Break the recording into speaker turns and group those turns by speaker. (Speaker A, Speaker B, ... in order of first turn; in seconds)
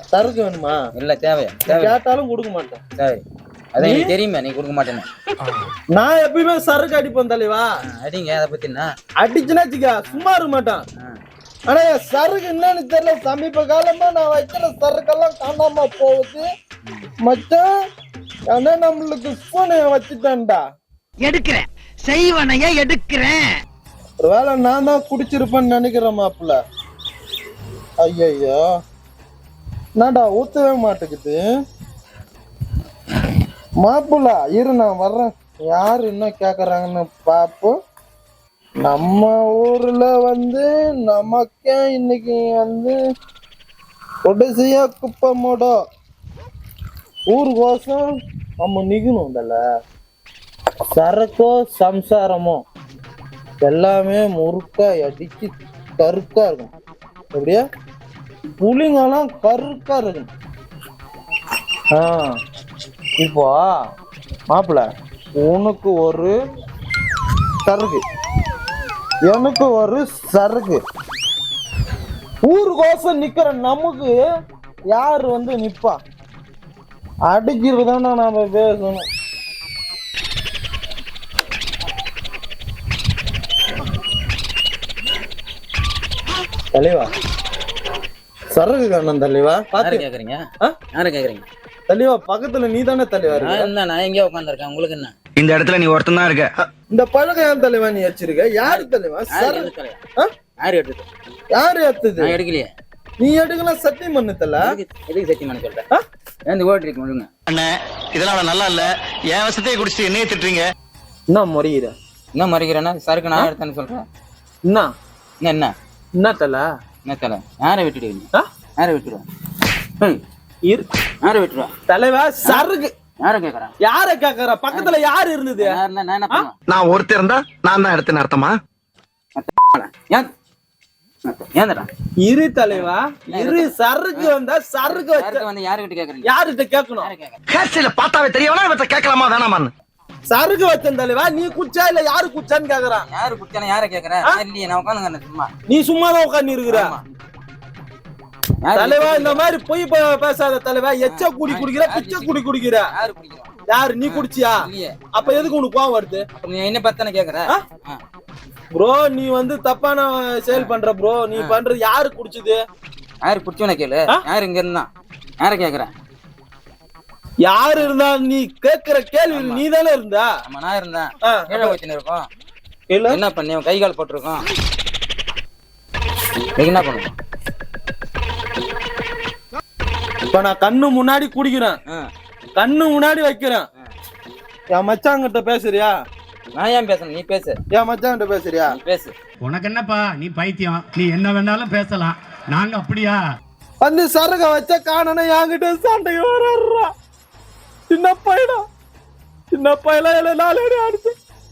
Speaker A: 0.1-0.8, 1.6-2.8, 3.8-4.1, 5.9-7.7, 9.2-10.8, 11.7-16.4, 17.2-17.7, 18.5-20.6, 24.2-26.6, 28.0-28.6, 30.0-31.4, 33.8-37.7, 38.8-43.0, 44.2-45.7, 47.3-48.0, 48.6-49.6, 50.9-52.6, 53.6-56.7, 57.3-57.6, 58.6-60.3, 61.9-62.4, 63.2-63.7, 64.5-66.3, 67.6-68.0, 69.3-70.8, 72.4-74.2, 74.9-76.0, 77.3-79.0, 86.7-87.1, 88.5-90.0, 91.9-93.7, 96.9-100.3, 101.5-102.3, 103.2-104.7, 111.3-111.9, 116.2-116.7, 121.9-122.9, 123.8-125.8, 132.2-135.4, 136.2-137.1, 140.3-143.1, 145.7-146.9, 148.7-152.9, 153.7-154.6, 155.1-156.2, 158.7-162.6, 167.4-170.3, 171.2-171.8, 172.9-173.2, 180.3-181.8, 182.6-183.7, 184.7-185.9, 187.7-188.8, 193.8-196.9, 197.9-198.6, 199.5-201.2
Speaker B: 0.9-2.0, 3.0-3.2, 3.7-5.1, 7.9-8.9, 89.8-90.4, 90.9-91.4, 93.3-95.1, 98.6-100.0, 100.6-101.0, 102.2-102.7, 104.6-105.8, 106.5-107.3, 112.3-114.0, 115.4-115.7, 117.0-119.2, 121.2-121.7, 123.2-123.7, 125.6-126.6, 129.4-130.3, 131.3-131.9, 132.7-134.3, 134.9-136.3, 137.0-137.4, 143.1-145.5, 146.7-147.0, 148.6-149.4, 151.1-153.5, 154.1-155.5, 156.3-158.0, 163.2-164.9, 165.4-165.9, 169.3-169.6, 170.4-172.2, 173.1-174.4, 176.6-177.1, 186.5-187.6, 188.7-189.1
Speaker C: 21.2-23.6
Speaker D: 95.4-96.6, 107.5-110.7, 126.7-128.5, 137.5-139.7
Speaker E: 189.4-193.2